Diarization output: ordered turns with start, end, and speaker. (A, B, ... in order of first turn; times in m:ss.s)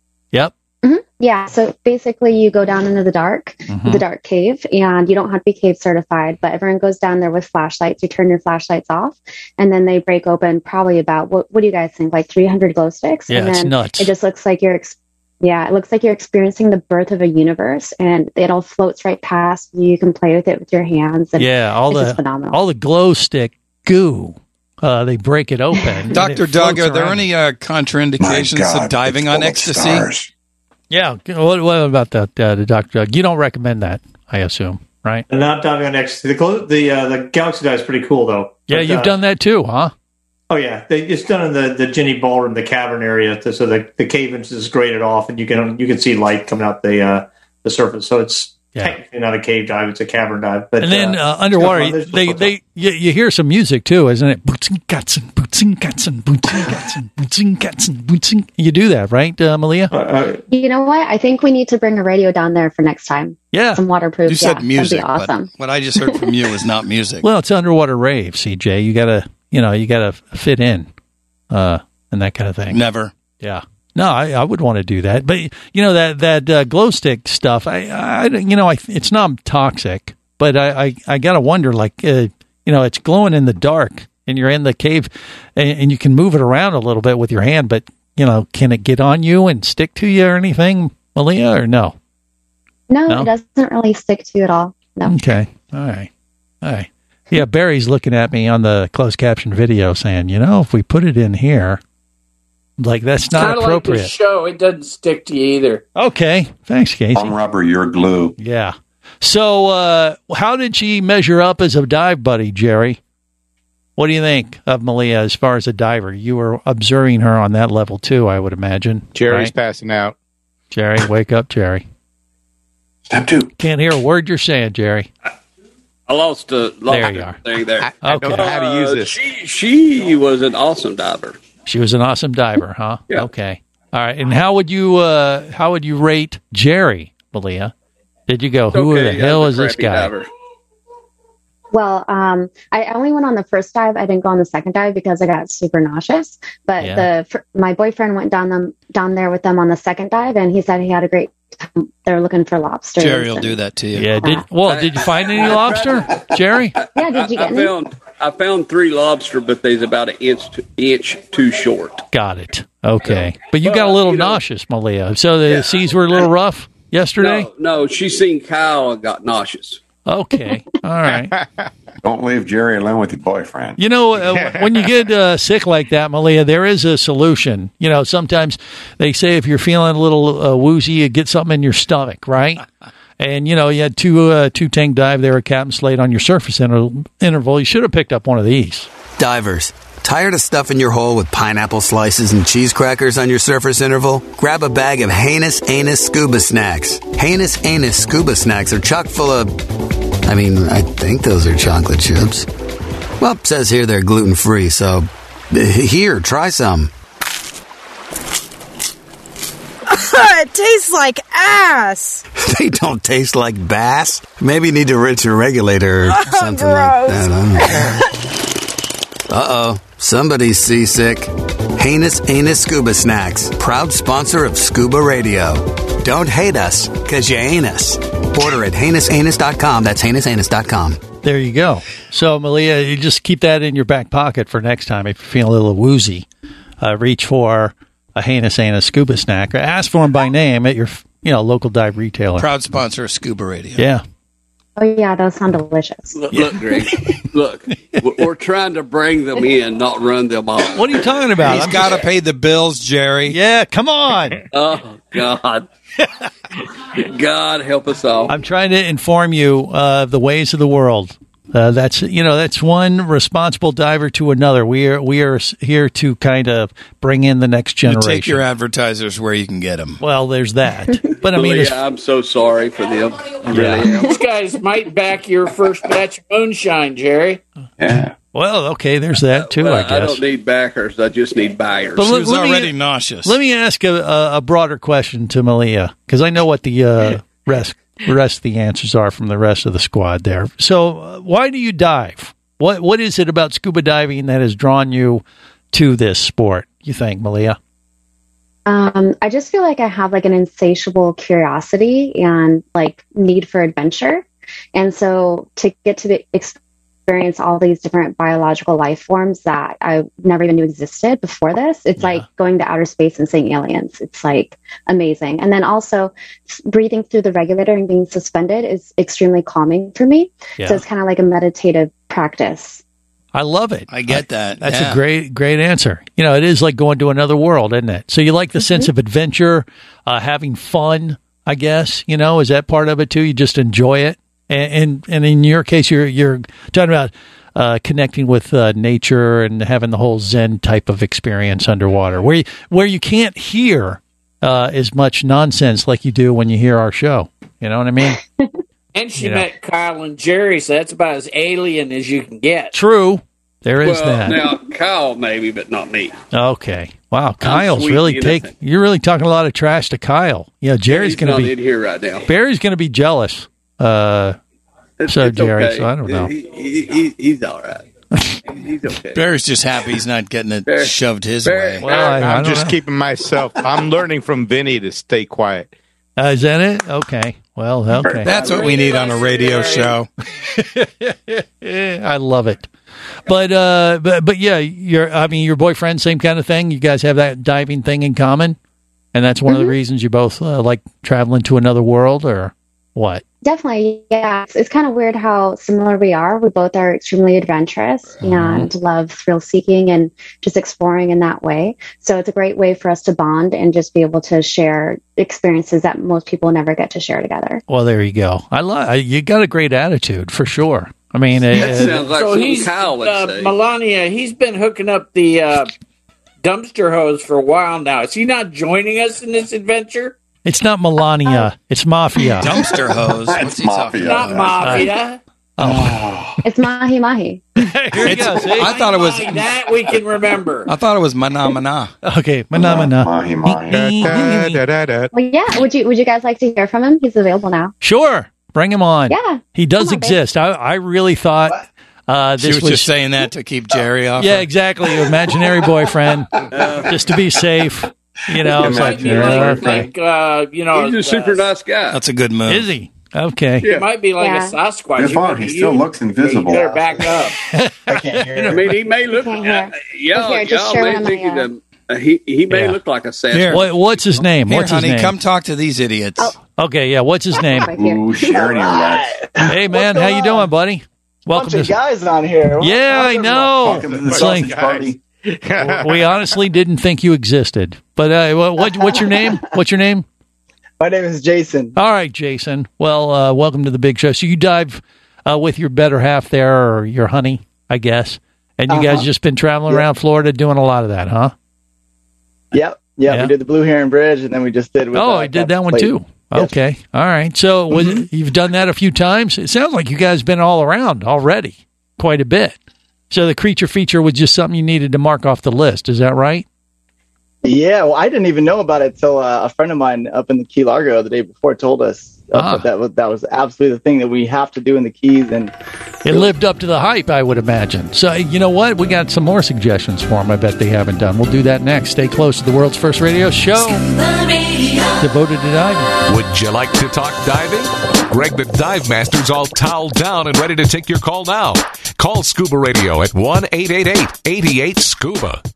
0:00.8-0:22.6 A
0:03.7-0:04.0 B
0:13.3-0:14.1 B
0:21.4-0:27.3 B
0:26.1-0:30.1 C
0:28.2-0:30.3 D
0:30.9-0:35.3 B
0:35.3-0:39.2 E
0:38.7-0:39.9 B
0:40.5-0:52.5 E
0:48.8-0:49.0 B
0:50.8-0:59.9 B
0:59.9-1:00.4 E
1:00.5-1:05.5 A
1:03.5-1:03.8 B
1:04.3-1:07.3 C
1:07.2-1:10.9 B
1:11.5-1:12.8 B
1:12.7-1:13.1 C
1:13.4-1:32.0 B
1:32.9-1:35.2 A
1:35.1-1:36.1 B
1:36.6-1:41.8 B
1:42.8-1:44.1 B
1:43.3-1:45.8 F
1:46.0-1:47.4 B
1:47.1-1:48.4 D
1:48.4-1:53.0 B
1:54.0-1:59.5 B
1:59.1-2:00.2 G
2:00.7-2:01.8 B
2:03.1-2:03.5 D
2:03.6-2:05.1 B
2:06.1-2:11.4 H
2:06.9-2:07.4 B
2:07.8-2:09.2 G
2:08.0-2:08.5 B
2:11.7-2:17.7 B
2:18.3-2:20.1 B
2:18.7-2:20.3 H
2:21.7-2:33.6 A
2:26.8-2:27.1 B
2:33.0-2:34.1 C
2:34.0-2:36.8 B
2:34.7-2:42.1 H
2:37.0-2:37.7 A
2:42.1-2:47.5 B
2:43.1-2:44.4 H
2:45.5-2:46.3 H
2:47.2-2:49.8 H
2:50.1-2:51.4 B
2:52.0-2:53.8 D
2:53.8-3:02.6 B
3:03.2-3:08.9 B
3:09.2-3:19.5 I
3:20.3-3:22.5 I
3:23.2-3:26.9 I
3:29.9-3:32.2 J
3:32.4-3:38.0 I
3:36.0-3:37.9 J
3:39.3-3:51.0 I
3:51.2-3:56.3 B
3:56.8-4:02.5 B
4:02.4-4:03.9 C
4:03.8-4:04.0 B
4:04.8-4:06.2 A
4:06.3-4:11.1 H
4:10.7-4:11.9 B
4:11.4-4:13.4 C
4:13.3-4:14.4 B
4:14.5-4:15.7 H
4:16.9-4:18.3 H
4:18.3-4:28.4 B
4:27.8-4:30.0 C
4:30.0-4:31.8 B
4:31.3-4:34.1 H
4:33.5-4:33.9 B
4:33.9-4:37.4 F
4:37.8-4:38.2 D
4:38.3-4:40.2 B
4:39.3-4:42.1 H
4:42.0-4:57.6 B
4:42.0-4:43.4 C
4:58.7-5:22.8 A
5:12.0-5:12.2 B
5:23.3-5:48.2 B
5:23.9-5:25.0 C
5:28.6-5:28.9 A
5:48.9-5:52.8 F
5:49.2-5:49.5 B
5:52.7-5:54.5 B
5:53.8-5:56.2 H
5:56.3-6:01.5 B
5:57.4-5:58.5 H
6:00.9-6:02.3 H
6:02.3-6:04.4 B
6:05.0-6:07.9 H
6:05.1-6:06.3 B
6:08.5-6:09.2 H
6:09.1-6:11.8 C
6:10.7-6:10.9 H
6:11.4-6:12.2 H
6:11.8-6:12.8 B
6:12.0-6:15.7 G
6:16.2-6:18.4 B
6:18.0-6:18.3 D
6:18.2-6:20.1 C
6:18.4-6:19.9 F
6:20.4-6:22.7 B
6:23.3-6:28.6 B
6:29.1-6:33.2 B
6:29.5-6:29.8 A
6:33.4-6:47.6 A
6:38.2-6:38.7 B
6:47.7-6:52.1 B
6:51.5-6:53.6 H
6:52.1-6:55.7 F
6:56.4-7:00.2 F
7:00.4-7:02.6 B
7:02.4-7:04.5 C
7:02.6-7:04.9 D
7:04.0-7:05.2 F
7:04.6-7:04.9 B
7:05.6-7:06.1 B
7:05.6-7:06.4 D
7:06.4-7:07.4 A
7:07.6-7:08.8 B
7:08.0-7:09.7 C
7:08.6-7:10.7 F
7:10.7-7:11.9 C
7:12.0-7:14.6 B
7:12.5-7:14.2 D
7:13.7-7:15.1 G
7:15.1-7:17.7 A
7:17.8-7:22.9 B
7:19.1-7:20.2 A
7:22.4-7:24.5 C
7:24.2-7:29.9 B
7:26.5-7:26.9 H
7:28.4-7:29.8 D
7:28.6-7:31.5 F
7:30.7-7:32.0 H
7:31.9-7:32.7 C
7:32.5-7:33.7 B
7:33.6-7:33.9 H
7:33.7-7:37.4 F
7:34.2-7:34.6 A
7:35.0-7:37.2 D
7:37.5-7:38.8 B
7:37.9-7:38.6 K
7:38.5-7:43.8 H
7:39.1-7:41.5 A
7:42.5-7:42.8 B
7:43.4-7:45.2 B
7:44.5-7:46.4 C
7:46.6-7:47.7 B
7:47.4-7:48.8 A
7:47.6-7:49.5 D
7:49.5-7:51.8 B
7:49.6-7:50.5 K
7:51.3-7:53.6 K
7:52.6-7:54.5 B
7:53.6-7:55.0 D
7:53.7-7:56.1 G
7:55.6-8:00.0 B
7:58.8-7:59.3 K
8:00.8-8:01.8 K
8:01.8-8:11.3 B
8:08.7-8:09.1 K
8:12.5-8:16.5 K
8:13.1-8:13.3 B
8:14.9-8:22.6 B
8:17.7-8:18.0 K
8:23.1-8:26.5 B
8:27.4-8:35.5 K
8:32.4-8:32.7 B
8:36.0-8:43.9 B
8:45.0-8:45.9 B
8:46.1-8:55.4 L